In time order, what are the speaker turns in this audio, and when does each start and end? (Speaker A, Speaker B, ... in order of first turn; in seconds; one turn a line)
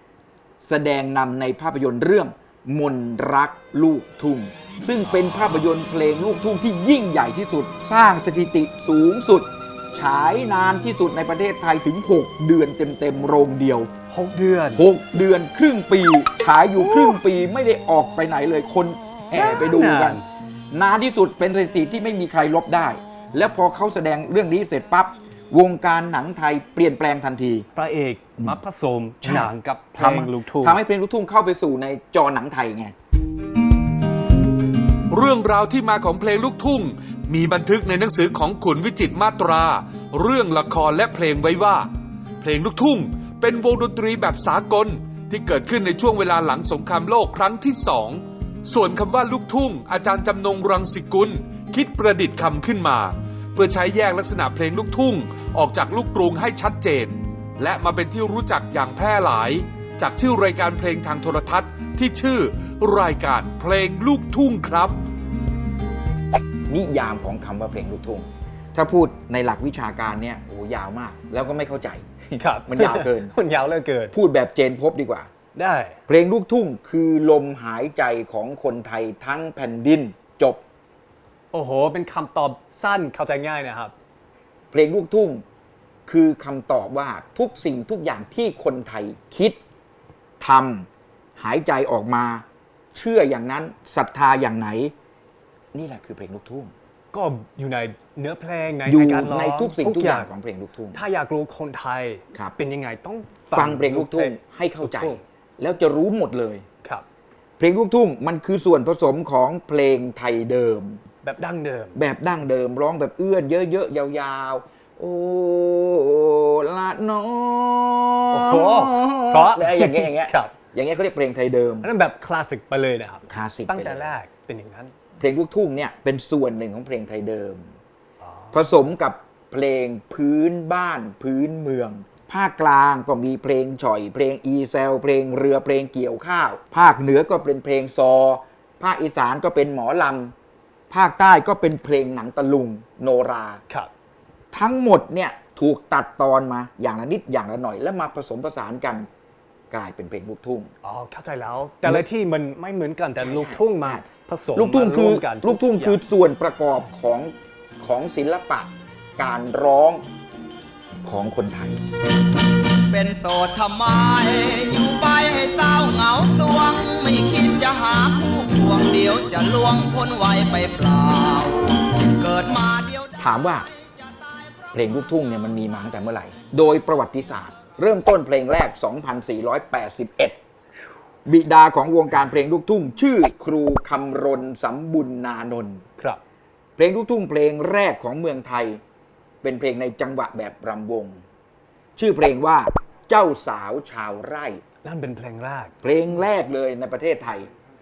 Speaker A: 0.6-13.9
Speaker B: 5.1-5.6
Speaker B: 14.1-14.8
Speaker A: 14.7-27.7
Speaker B: 16.8-17.2
Speaker B: 19.3-20.2
Speaker B: 27.7-30.8
Speaker A: 29.2-32.9
Speaker C: 35.1-41.9
Speaker C: 42.4-65.0
Speaker A: 66.7-73.3
Speaker B: 72.4-74.2
Speaker A: 74.1-75.3
Speaker B: 75.5-76.0
Speaker A: 76.1-80.6
Speaker B: 81.5-83.9
Speaker A: 84.7-85.4
Speaker A: 86.1-89.6
Speaker A: 90.4-94.9
Speaker A: 95.7-96.7
Speaker B: 97.1-100.3
Speaker A: 98.8-101.0
Speaker B: 100.9-105.2
Speaker A: 103.5-106.7
Speaker A: 107.6-111.0
Speaker B: 111.2-112.0
Speaker A: 111.9-121.9
Speaker B: 118.3-120.5
Speaker B: 121.8-124.9
Speaker A: 123.3-124.1
Speaker A: 125.2-127.7
Speaker B: 128.2-128.5
Speaker A: 128.5-140.3
Speaker A: 140.9-143.6
Speaker A: 144.5-149.1
Speaker A: 149.7-150.7
Speaker B: 150.8-156.0
Speaker A: 153.2-160.0
Speaker A: 161.0-161.8
Speaker D: 162.9-173.1
Speaker A: 173.2-173.7
Speaker A: 174.7-180.4
Speaker A: 181.2-185.8
Speaker A: 186.8-188.8
Speaker A: 189.4-191.2
Speaker A: 191.9-194.6
Speaker B: 194.8-195.7
Speaker A: 195.8-197.5